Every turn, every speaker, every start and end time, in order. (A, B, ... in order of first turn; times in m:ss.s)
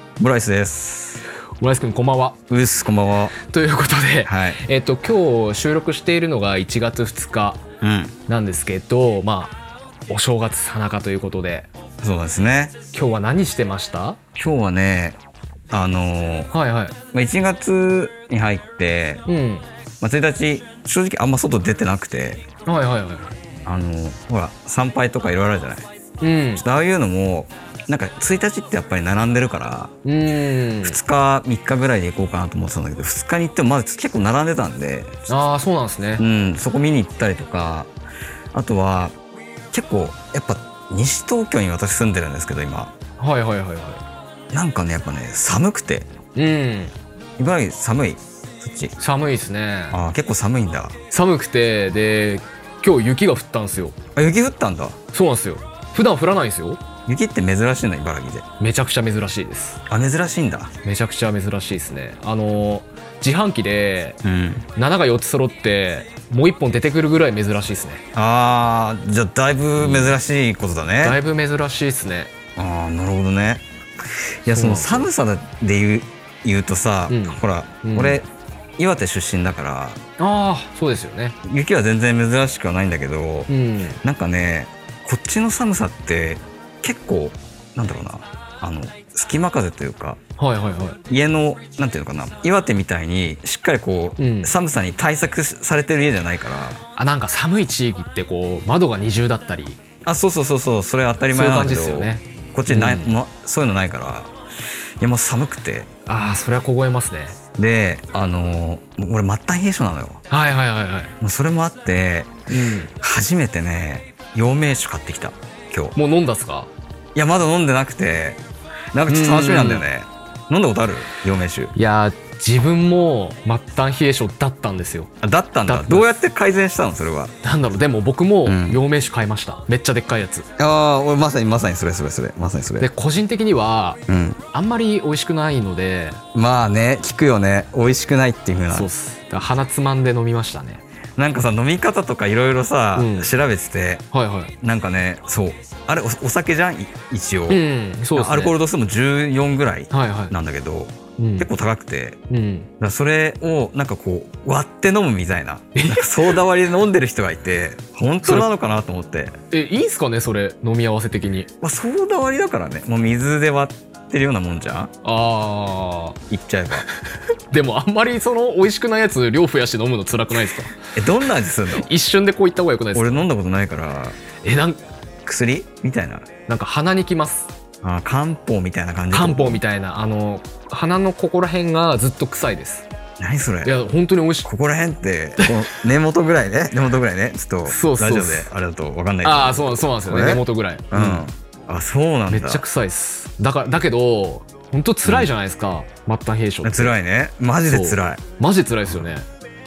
0:00.2-0:01.2 A
0:01.6-0:02.4 B
0:02.5-0:03.4 A
0:03.4-0:07.6 B
0:04.3-0:04.6 A
0:07.8-0:08.2 A
0:08.3-0:09.6 B
0:10.1-0:11.7 B
0:12.0-0:12.8 A
0:12.9-0:14.2 B
0:14.4-0:15.2 A
0:15.7-0:16.5 A
0:16.5-0:17.0 B
0:17.1-0:19.2 A
0:19.3-0:19.6 B
0:20.0-0:22.4 A
0:22.7-0:23.3 B
0:23.6-0:25.9 A
0:26.2-0:26.6 B
0:26.6-0:30.0 A
0:30.0-0:31.0 B
0:30.8-0:35.3 A
0:35.3-0:36.2 B
0:36.2-0:37.9 A
0:38.5-0:39.2 A
0:39.7-0:42.9 A
0:43.2-0:44.0 B
0:44.5-0:46.1 A
0:46.4-0:46.9 B
0:47.4-0:48.9 A
0:49.0-0:50.0 B
0:49.9-0:51.0 A
0:51.1-0:54.0 B
0:54.2-0:55.0 A
0:55.1-0:56.8 B
0:57.1-0:58.5 A
0:58.6-0:59.8 B
0:59.9-1:00.7 A
1:00.8-1:04.2 B
1:04.2-1:04.7 A
1:04.8-1:08.0 B
1:08.1-1:11.2 A
1:09.8-1:10.2 B
1:11.0-1:12.3 B
1:12.6-1:18.3 A
1:14.5-1:15.1 B
1:17.1-1:18.2 B
1:18.8-1:20.0 A
1:20.2-1:21.4 B
1:21.4-1:23.5 A
1:23.5-1:24.0 B
1:24.0-1:30.2 A
1:30.4-1:31.0 B
1:31.1-1:36.8 A
1:34.2-1:34.5 B
1:37.0-1:39.8 B
1:40.0-1:44.3 A
1:41.3-1:43.1 B
1:45.0-1:45.9 A
1:46.1-1:47.4 B
1:47.6-1:50.2 A
1:50.3-1:51.1 B
1:51.2-1:52.4 A
1:52.5-1:52.9 B
1:52.9-1:56.0 A
1:56.0-1:56.7 B
1:57.2-1:58.4 A
1:58.9-2:01.7 A
1:59.1-1:59.8 B
2:01.8-2:05.1 B
2:05.2-2:07.3 A
2:05.7-2:06.1 B
2:07.4-2:10.5 B
2:08.4-2:08.8 A
2:10.6-2:12.9 A
2:12.8-2:14.0 B
2:14.1-2:14.4 A
2:14.5-2:16.2 B
2:16.3-2:18.9 A
2:18.7-2:20.8 B
2:21.2-2:24.0 A
2:23.0-2:23.3 B
2:24.1-2:24.5 B
2:24.6-2:32.2 A
2:27.5-2:28.5 B
2:29.9-2:30.3 B
2:31.2-2:31.5 B
2:32.3-2:32.7 B
2:32.8-2:39.4 A
2:35.8-2:36.3 B
2:39.5-2:41.5 B
2:41.6-2:44.9 A
2:45.0-2:46.2 B
2:46.3-2:46.9 A
2:47.5-2:50.8 B
2:50.9-2:51.9 A
2:51.7-2:53.2 B
2:52.9-2:54.2 A
2:54.4-2:54.8 B
2:55.2-2:56.3 A
2:56.5-2:57.5 B
2:57.8-2:59.6 A
2:59.1-3:02.9 B
3:03.2-3:03.8 A
3:03.6-3:04.5 B
3:04.4-3:12.6 A
3:07.7-3:08.5 B
3:09.2-3:11.3 B
3:12.3-3:17.0 B
3:15.0-3:15.3 A
3:16.6-3:18.2 A
3:17.7-3:19.2 B